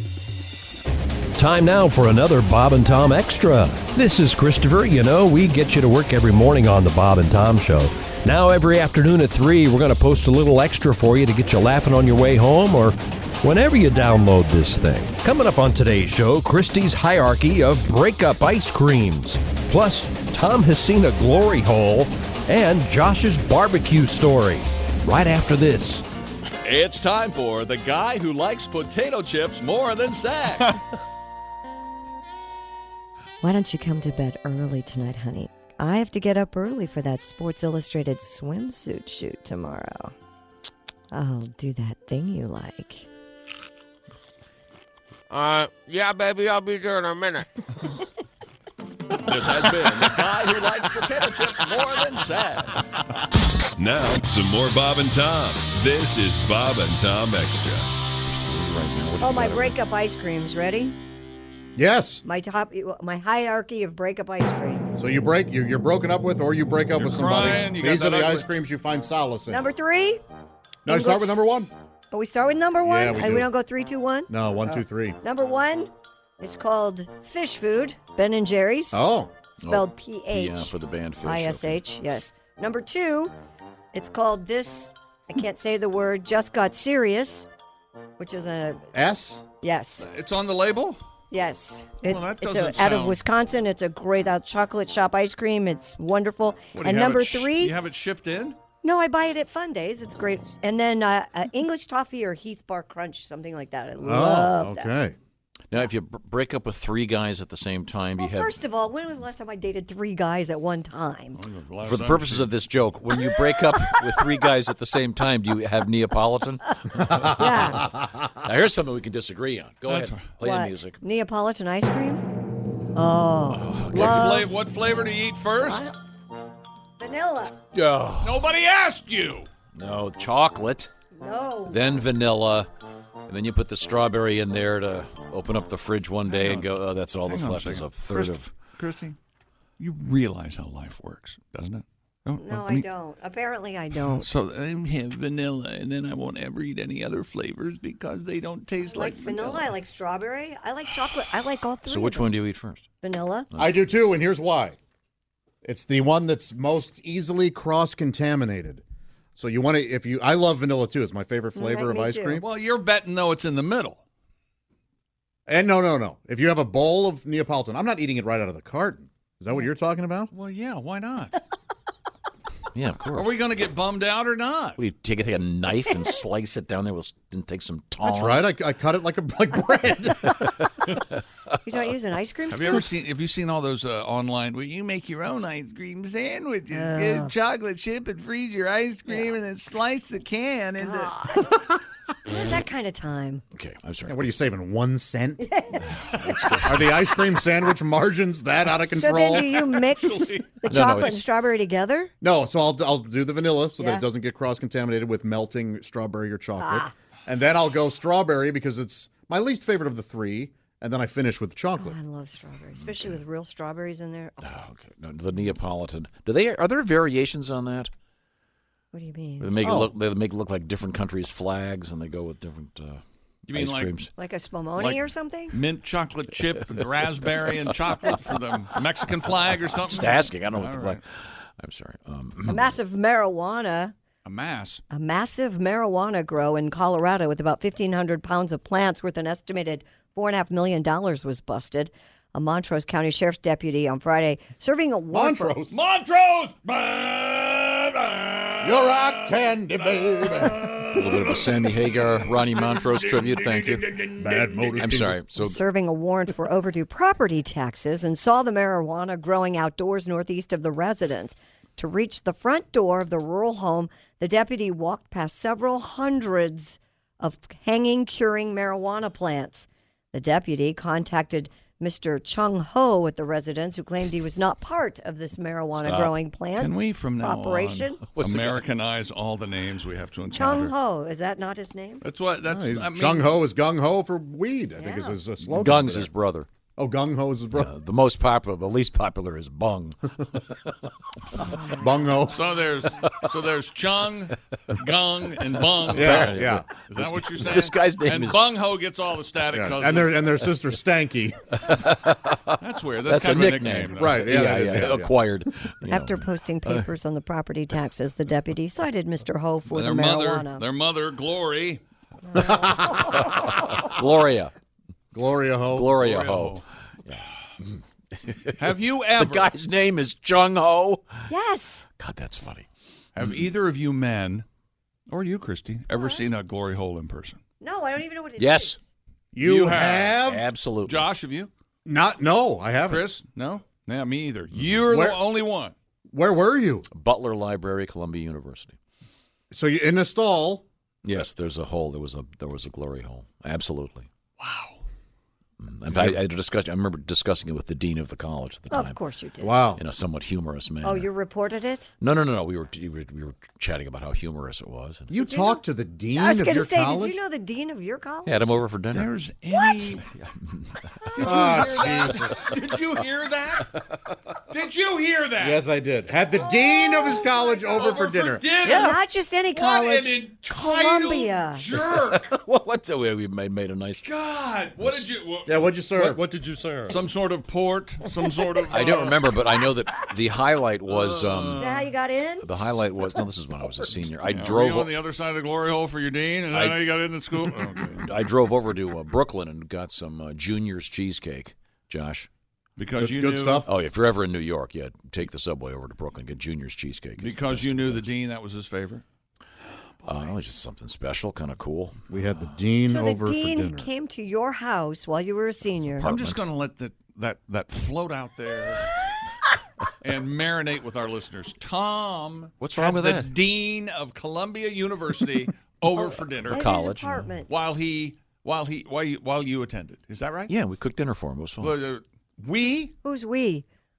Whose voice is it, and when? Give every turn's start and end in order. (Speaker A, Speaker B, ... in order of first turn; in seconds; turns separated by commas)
Speaker A: 1.3-26.0, Speaker B: 26.6-28.1, Speaker C: 26.8-30.6, Speaker B: 28.8-30.7, Speaker D: 33.4-40.1, Speaker D: 41.1-43.1, Speaker E: 45.3-47.5, Speaker F: 49.2-51.1, Speaker G: 49.4-49.9, Speaker B: 50.3-52.6, Speaker G: 53.8-57.9, Speaker F: 58.1-59.7, Speaker D: 59.2-61.0, Speaker H: 61.8-62.2, Speaker D: 62.2-64.9, Speaker H: 65.0-69.6, Speaker B: 67.0-68.5, Speaker D: 69.5-70.2, Speaker H: 70.8-71.7, Speaker D: 70.9-71.4, Speaker D: 72.1-79.0, Speaker H: 72.8-73.5, Speaker H: 74.3-75.2, Speaker H: 78.9-79.3, Speaker D: 79.5-83.3, Speaker F: 79.6-81.8, Speaker D: 83.9-87.5, Speaker D: 88.2-88.9, Speaker H: 88.9-89.4, Speaker D: 89.6-90.0, Speaker B: 90.0-91.0, Speaker D: 91.3-97.7, Speaker B: 92.0-93.2, Speaker B: 96.7-98.6, Speaker D: 98.8-104.9, Speaker H: 104.0-105.2, Speaker F: 105.7-108.5, Speaker D: 108.2-111.4, Speaker B: 111.4-112.5, Speaker F: 111.8-121.0, Speaker D: 117.0-117.9, Speaker B: 119.9-120.3, Speaker D: 120.4-122.2, Speaker D: 122.9-124.5, Speaker F: 123.5-124.5, Speaker B: 123.9-125.9, Speaker D: 125.6-125.9, Speaker D: 127.0-127.6, Speaker F: 127.7-128.5, Speaker B: 128.2-129.5, Speaker F: 129.7-130.9, Speaker D: 131.2-131.8, Speaker F: 131.7-132.7, Speaker F: 133.3-138.5, Speaker B: 136.3-136.7, Speaker B: 137.3-139.2, Speaker B: 139.8-142.8, Speaker D: 142.4-144.3, Speaker B: 144.1-149.7, Speaker D: 148.9-152.4, Speaker F: 151.9-152.8, Speaker D: 153.0-153.5, Speaker F: 153.5-153.8, Speaker H: 153.6-154.8, Speaker H: 155.6-158.8, Speaker H: 159.4-162.5, Speaker D: 161.6-162.4, Speaker B: 162.4-164.0, Speaker H: 165.5-170.3, Speaker B: 170.3-171.4, Speaker F: 172.8-173.4, Speaker B: 173.1-174.8, Speaker F: 174.8-178.5, Speaker H: 178.0-180.5, Speaker D: 181.6-182.8, Speaker B: 182.5-191.2, Speaker D: 186.7-187.3, Speaker D: 189.1-189.3, Speaker D: 190.8-191.6, Speaker D: 192.3-193.4, Speaker F: 193.5-194.3, Speaker H: 194.1-195.5, Speaker D: 195.4-196.6, Speaker F: 196.1-196.9, Speaker H: 196.6-199.8, Speaker D: 198.9-202.1, Speaker B: 200.0-200.6, Speaker F: 200.7-201.2, Speaker H: 202.2-212.0, Speaker D: 203.8-204.1, Speaker D: 206.6-206.9, Speaker D: 211.8-214.5, Speaker F: 214.4-217.9, Speaker D: 218.9-219.6, Speaker F: 219.4-224.1, Speaker H: 219.6-219.9, Speaker B: 223.5-224.0, Speaker D: 224.2-225.6, Speaker B: 224.8-231.0, Speaker F: 229.7-231.0, Speaker F: 231.6-232.7, Speaker D: 232.5-233.9, Speaker B: 234.2-234.8, Speaker D: 234.9-245.6, Speaker H: 245.1-245.8, Speaker B: 245.7-249.0, Speaker C: 246.4-246.9, Speaker C: 247.8-248.3, Speaker H: 248.6-251.4, Speaker F: 250.9-254.0, Speaker B: 252.1-252.8, Speaker B: 253.4-254.5, Speaker H: 254.2-255.2, Speaker F: 254.8-255.6, Speaker D: 255.3-278.0, Speaker F: 275.8-276.2, Speaker B: 276.6-280.7, Speaker F: 278.1-278.7, Speaker D: 280.3-282.0, Speaker B: 282.0-283.4, Speaker H: 282.4-286.1, Speaker D: 284.8-285.2, Speaker F: 285.4-286.5, Speaker H: 286.8-287.7, Speaker F: 287.5-290.8, Speaker D: 291.3-292.3, Speaker H: 291.7-292.5, Speaker B: 292.4-300.3, Speaker F: 295.7-298.6, Speaker H: 295.9-296.7, Speaker H: 299.5-301.5, Speaker F: 301.6-306.9, Speaker B: 302.6-304.2, Speaker H: 303.9-305.1, Speaker D: 305.9-310.6, Speaker B: 309.7-311.8, Speaker D: 312.3-313.3, Speaker H: 312.3-313.2, Speaker F: 313.3-314.5, Speaker H: 315.1-315.9, Speaker F: 315.7-321.3, Speaker B: 316.0-316.6, Speaker B: 318.6-319.5, Speaker D: 321.3-321.9, Speaker F: 322.0-322.7, Speaker B: 323.1-324.4, Speaker B: 325.1-327.4, Speaker D: 325.9-326.3, Speaker D: 327.6-328.8, Speaker F: 328.4-328.8, Speaker H: 329.3-330.5, Speaker F: 329.4-331.1, Speaker B: 329.5-330.1, Speaker B: 330.9-331.5, Speaker H: 331.8-333.1, Speaker B: 332.9-335.8, Speaker F: 334.5-334.8, Speaker H: 334.9-335.3, Speaker H: 336.1-336.9, Speaker F: 336.9-338.8, Speaker H: 339.5-340.6, Speaker F: 341.0-344.1, Speaker B: 344.4-344.8, Speaker F: 345.6-349.0, Speaker H: 345.9-346.2, Speaker D: 348.7-349.6, Speaker H: 349.4-349.8, Speaker F: 349.8-351.1, Speaker D: 350.8-351.9, Speaker F: 352.0-355.1, Speaker H: 355.1-357.2, Speaker D: 355.2-355.6, Speaker D: 356.1-358.6, Speaker F: 358.2-359.1, Speaker B: 358.9-360.1, Speaker F: 360.0-361.3, Speaker B: 361.1-363.7, Speaker H: 361.2-362.4, Speaker F: 363.6-364.2, Speaker B: 364.5-365.6, Speaker H: 365.4-368.5, Speaker D: 366.7-367.6, Speaker B: 367.7-369.0, Speaker D: 368.6-371.7, Speaker F: 368.7-369.0, Speaker B: 369.5-372.3, Speaker F: 371.7-374.2, Speaker B: 374.0-379.2, Speaker F: 374.8-375.1, Speaker H: 375.4-376.3, Speaker F: 378.7-381.8, Speaker D: 381.5-382.8, Speaker F: 382.4-385.0, Speaker B: 384.3-388.1, Speaker F: 386.5-386.9, Speaker F: 388.0-392.3, Speaker B: 392.8-393.6, Speaker H: 393.0-393.7, Speaker F: 393.6-398.1, Speaker B: 397.2-399.0, Speaker F: 400.0-402.0, Speaker H: 402.1-403.9, Speaker D: 402.9-406.1, Speaker F: 405.7-406.4, Speaker B: 406.0-408.9, Speaker B: 410.0-416.7, Speaker F: 412.6-413.3, Speaker D: 416.0-417.5, Speaker F: 416.4-417.2, Speaker B: 417.5-420.5, Speaker F: 420.5-421.8, Speaker B: 421.6-422.9, Speaker D: 423.0-423.6